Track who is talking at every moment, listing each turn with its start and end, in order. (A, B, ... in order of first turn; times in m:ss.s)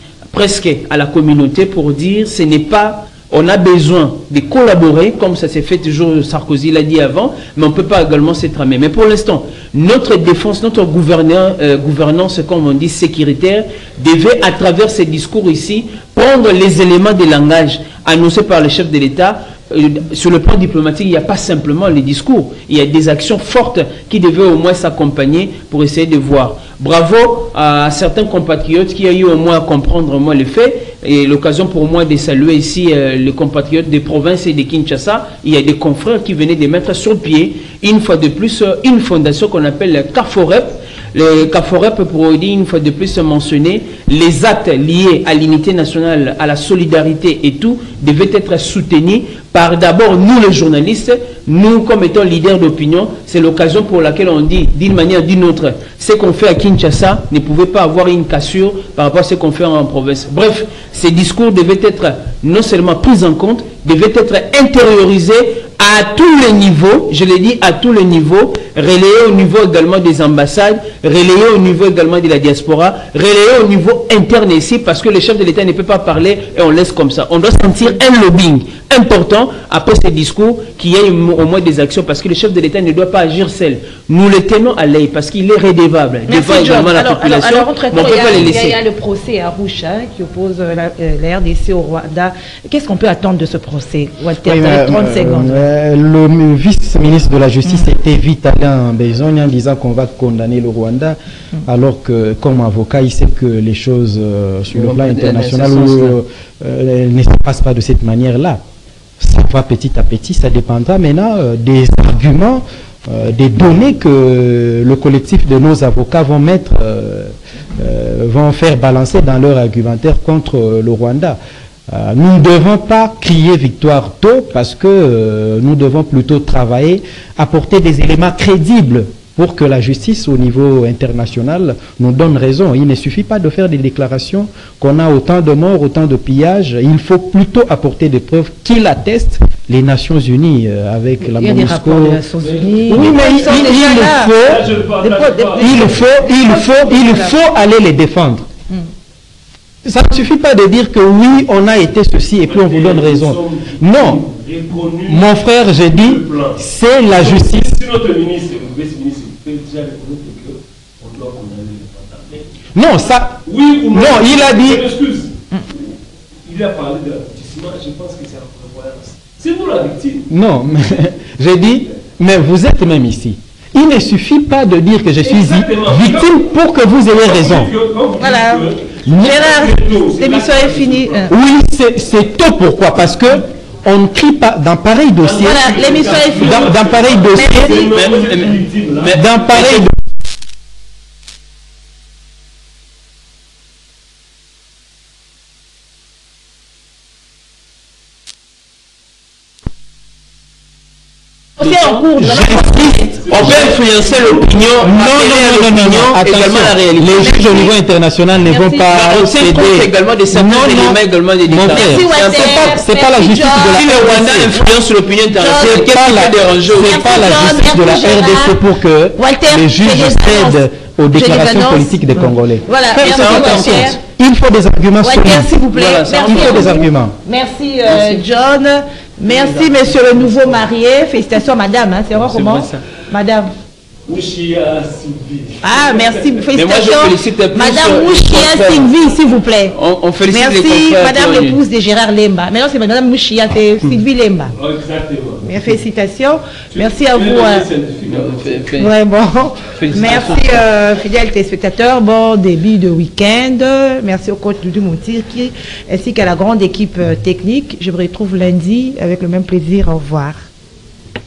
0:00.3-1:28.8 A
1:26.3-1:35.6 B
1:34.4-1:48.6 C
1:44.7-1:46.2 A
1:49.2-2:01.4 C
2:01.9-2:22.2 C
2:21.2-2:24.4 B
2:22.4-2:26.1 D
2:22.9-2:24.7 C
2:25.0-2:27.4 B
2:25.6-2:28.5 C
2:29.8-2:34.2 C
2:32.5-2:35.3 D
2:35.1-2:37.7 C
2:35.9-2:42.5 D
2:42.7-2:44.9 C
2:43.4-2:45.9 D
2:46.5-2:50.3 D
2:50.3-2:57.7 C
2:55.2-2:56.5 D
2:57.2-3:01.3 D
2:58.2-3:01.4 B
2:59.1-2:59.4 C
3:01.3-3:05.7 C
3:05.2-3:09.4 D
3:05.4-3:06.8 B
3:06.4-3:07.7 C
3:07.3-3:07.7 B
3:07.6-3:09.9 A
3:09.1-3:10.0 C
3:21.6-3:23.1 B
3:21.6-3:22.4 A
3:22.2-3:23.6 C
3:23.2-3:25.0 D
3:23.3-3:27.7 A
3:24.8-3:34.6 C
3:27.2-3:27.7 B
3:28.5-3:29.2 B
3:28.9-3:32.7 A
3:31.6-3:34.1 B
3:33.7-3:37.7 A
3:35.3-3:35.9 B
3:35.5-3:45.5 C
3:36.7-3:38.6 B
3:39.2-3:40.6 B
3:41.1-3:44.0 B
3:43.0-3:44.0 A
3:45.0-3:53.5 B
3:45.7-3:46.8 A
3:46.2-3:47.2 C
3:47.9-3:48.2 A
3:49.3-3:50.6 A
3:52.2-3:52.8 A
3:54.1-3:56.5 D
3:55.6-3:59.8 B
3:56.5-3:59.0 A
3:59.7-4:01.6 A
4:00.3-4:04.6 B
4:04.6-4:05.5 D
4:05.4-4:07.7 B
4:06.7-4:08.7 D
4:08.1-4:08.9 A
4:08.8-4:20.5 B
4:09.7-4:10.6 A